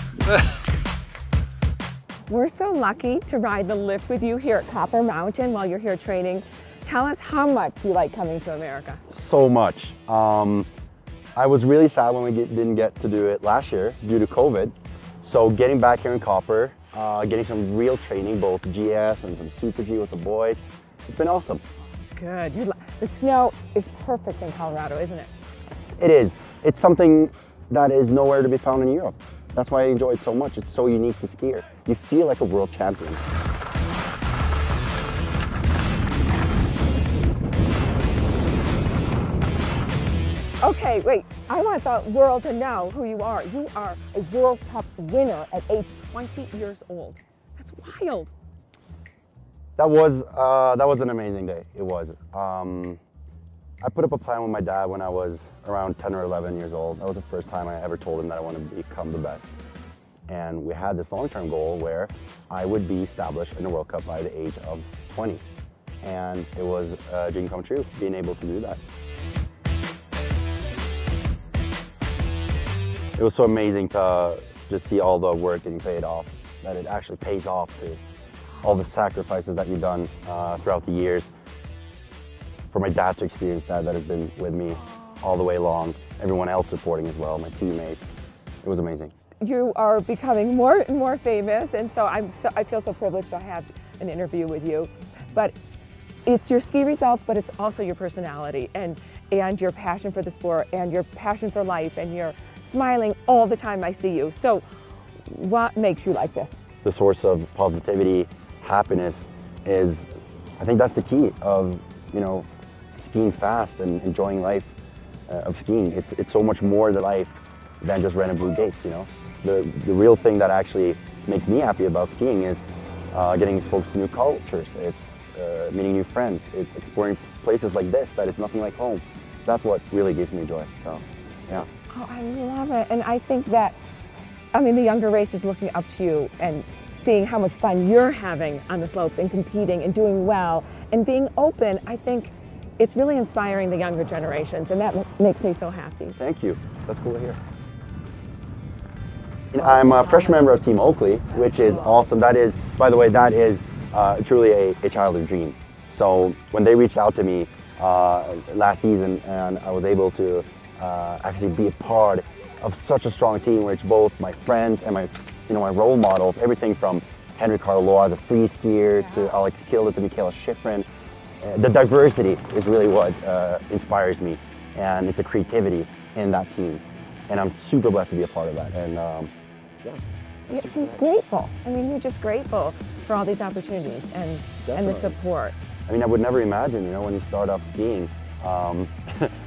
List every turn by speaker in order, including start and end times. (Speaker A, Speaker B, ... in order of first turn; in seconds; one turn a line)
Speaker A: 2.3-9.0
Speaker B: 9.1-10.7
Speaker B: 11.3-21.6
Speaker A: 22.1-25.3
Speaker B: 26.0-33.2
Speaker A: 40.6-48.3
Speaker B: 49.8-53.0
Speaker B: 53.8-59.5
Speaker B: 60.3-65.4
Speaker B: 66.0-68.8
Speaker B: 73.2-78.0
Speaker B: 78.6-81.3
Speaker B: 82.7-88.0
Speaker B: 88.6-89.1
Speaker A: 89.4-95.5
Speaker A: 96.2-104.6
Speaker A: 105.2-106.5
Speaker B: 106.8-110.1
Speaker B: 110.6-112.5
Speaker B: 113.0-114.7
Speaker B: 115.3-131.7
Speaker A: 131.9-133.8
Speaker A: 134.5-146.2
Speaker B: 146.2-147.4
Speaker B: 149.5-170.9
Speaker A: 149.6-150.6
Speaker A: 151.3-152.1
Speaker B: 171.4-179.3
Speaker B: 179.8-181.0
Speaker A: 180.5-185.6
Speaker B: 184.6-185.2
Speaker B: 185.9-189.3